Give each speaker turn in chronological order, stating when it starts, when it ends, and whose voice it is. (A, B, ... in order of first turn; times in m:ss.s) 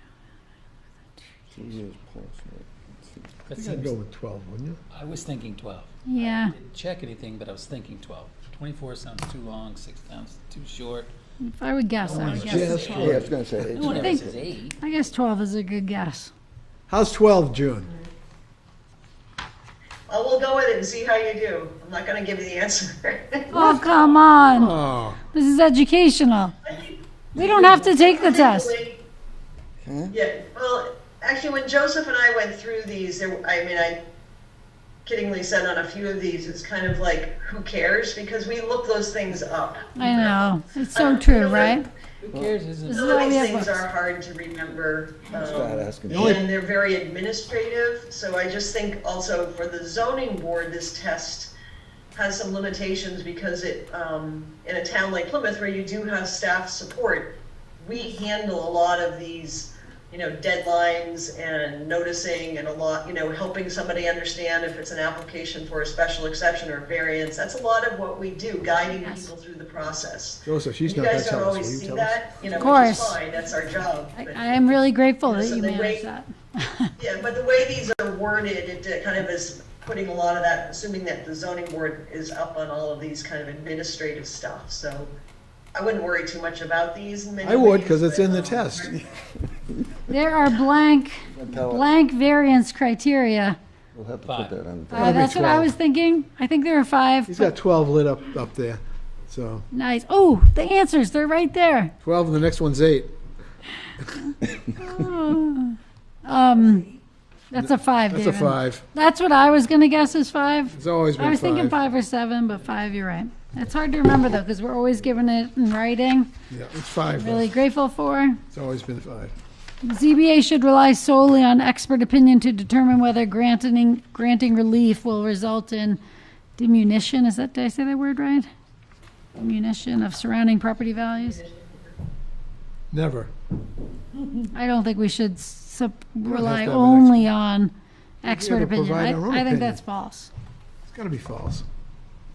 0:01.5-0:03.3 A
0:03.4-0:03.9 B
0:03.5-0:04.8 C
0:04.9-0:11.1 B
0:06.0-0:06.5 D
0:11.4-0:13.0 D
0:12.0-0:14.8 B
0:12.1-0:13.3 C
0:12.9-0:14.4 A
0:13.9-0:14.2 D
0:14.8-0:16.3 D
0:16.9-0:17.9 C
0:20.1-0:23.8 E
0:23.5-0:24.8 D
0:24.5-0:25.2 C
0:25.3-0:26.5 D
0:26.6-0:29.0 E
0:27.4-0:28.7 D
0:29.8-0:30.2 A
0:30.1-0:34.0 E
0:35.0-0:41.8 E
0:39.9-0:41.9 D
0:42.2-0:43.1 B
0:42.9-0:51.5 E
0:42.9-0:43.9 D
0:45.3-0:46.4 A
0:46.1-0:46.4 C
0:52.1-1:14.7 E
1:09.0-1:09.3 D
1:10.4-1:12.2 C
1:12.6-1:13.2 D
1:14.1-1:16.9 D
1:15.2-1:16.0 E
1:17.0-1:25.1 E
1:25.7-1:29.0 E
1:27.4-1:28.9 C
1:30.0-1:33.6 D
1:31.3-1:31.9 A
1:33.9-1:35.3 A
1:34.2-1:34.6 B
1:34.9-1:37.5 D
1:34.9-1:35.7 C
1:37.3-1:39.6 C
1:39.7-1:41.9 D
1:42.0-1:43.1 C
1:44.8-1:46.9 D
1:47.5-1:56.3 D
1:47.5-1:48.8 C
1:50.7-1:51.8 C
1:56.5-1:57.5 C
1:57.1-1:58.4 D
1:58.5-1:59.3 C
1:59.8-2:06.0 D
2:06.6-2:08.5 D
2:09.4-2:11.4 D
2:11.2-2:11.9 E
2:12.9-2:13.3 C
2:14.5-2:20.3 D
2:16.2-2:17.2 C
2:18.2-2:19.8 C
2:20.8-2:21.6 C